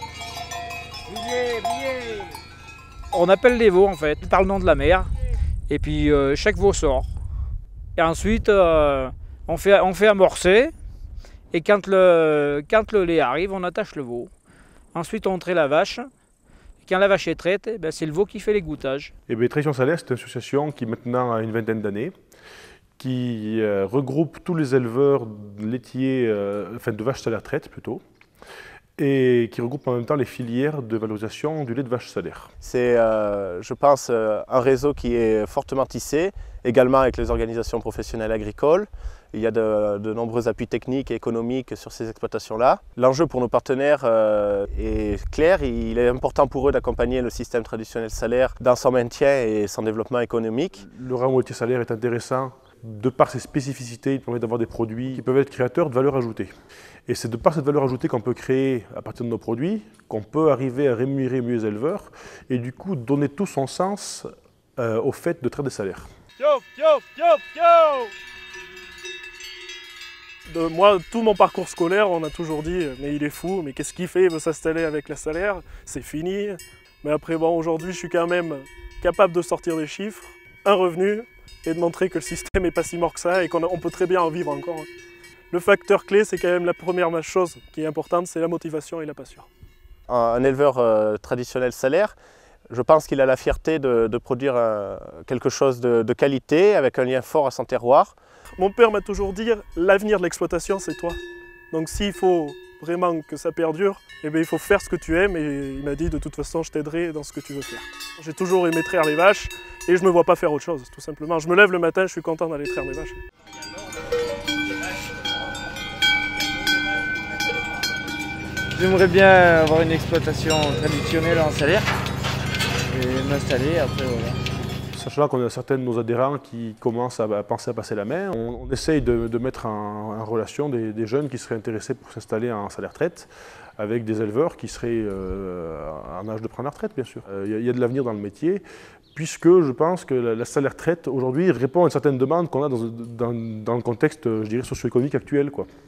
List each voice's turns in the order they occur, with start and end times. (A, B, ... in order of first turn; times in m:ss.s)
0:01.2-0:02.1 A
0:03.1-0:05.1 A
0:05.7-0:07.1 A
0:08.0-0:10.7 A
0:11.5-0:14.3 A
0:14.9-0:16.1 A
0:16.8-0:19.1 A
0:19.3-0:22.1 B
0:23.0-0:28.0 B
0:29.0-0:32.5 B
0:32.6-0:50.8 C
0:50.8-0:56.5 B
0:57.1-1:06.1 B
1:06.4-1:08.0 D
1:10.5-1:24.9 D
1:25.5-1:29.5 D
1:30.1-1:32.2 C
1:32.7-1:38.2 C
1:38.6-1:41.2 D
1:41.7-1:53.2 D
1:58.8-2:01.9 E
2:02.9-2:04.4 E
2:04.9-2:18.6 B
2:19.1-2:25.7 B